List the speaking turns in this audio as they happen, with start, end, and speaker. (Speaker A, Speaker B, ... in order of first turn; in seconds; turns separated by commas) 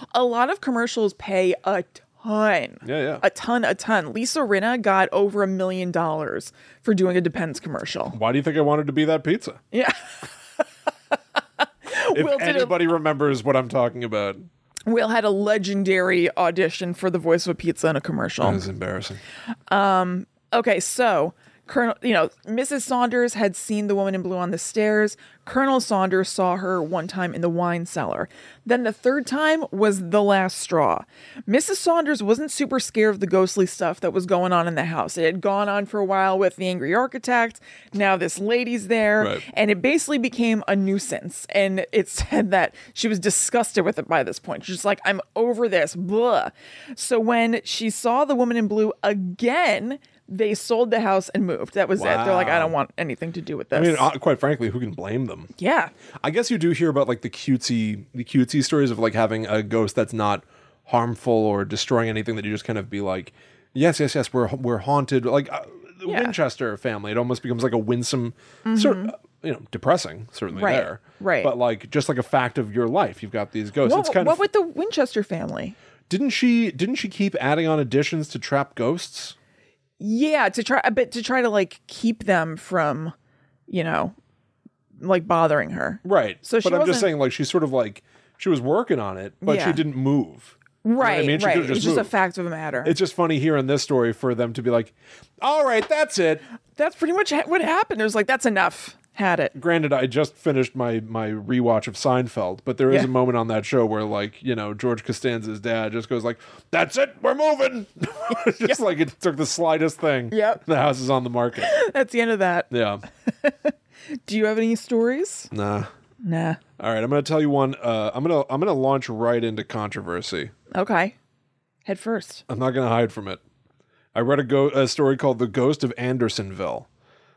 Speaker A: 0.1-8.2, Speaker B: 2.8-3.2, Speaker B: 8.1-9.6, Speaker A: 9.7-10.2, Speaker A: 11.8-12.8, Speaker B: 12.1-14.4, Speaker A: 14.9-18.6, Speaker B: 18.4-19.2, Speaker A: 19.7-54.1, Speaker B: 52.0-52.7, Speaker B: 53.7-55.5, Speaker A: 55.6-55.9, Speaker B: 56.2-74.4, Speaker A: 66.1-66.3, Speaker A: 68.7-69.1, Speaker A: 70.5-71.5, Speaker A: 73.8-75.7, Speaker B: 76.1-79.3, Speaker A: 80.0-83.1, Speaker A: 83.7-84.1, Speaker A: 85.0-87.1, Speaker B: 86.0-92.1, Speaker A: 89.4-89.8, Speaker A: 90.8-92.9, Speaker B: 92.8-96.4, Speaker A: 96.8-99.5, Speaker B: 99.5-111.7, Speaker A: 110.3-110.6, Speaker A: 111.6-112.7, Speaker B: 112.7-113.0, Speaker A: 113.3-115.5, Speaker B: 115.5-115.9, Speaker A: 116.2-116.6, Speaker B: 116.8-120.5, Speaker A: 120.7-121.1, Speaker A: 121.8-122.4, Speaker B: 122.5-123.4, Speaker B: 124.1-126.9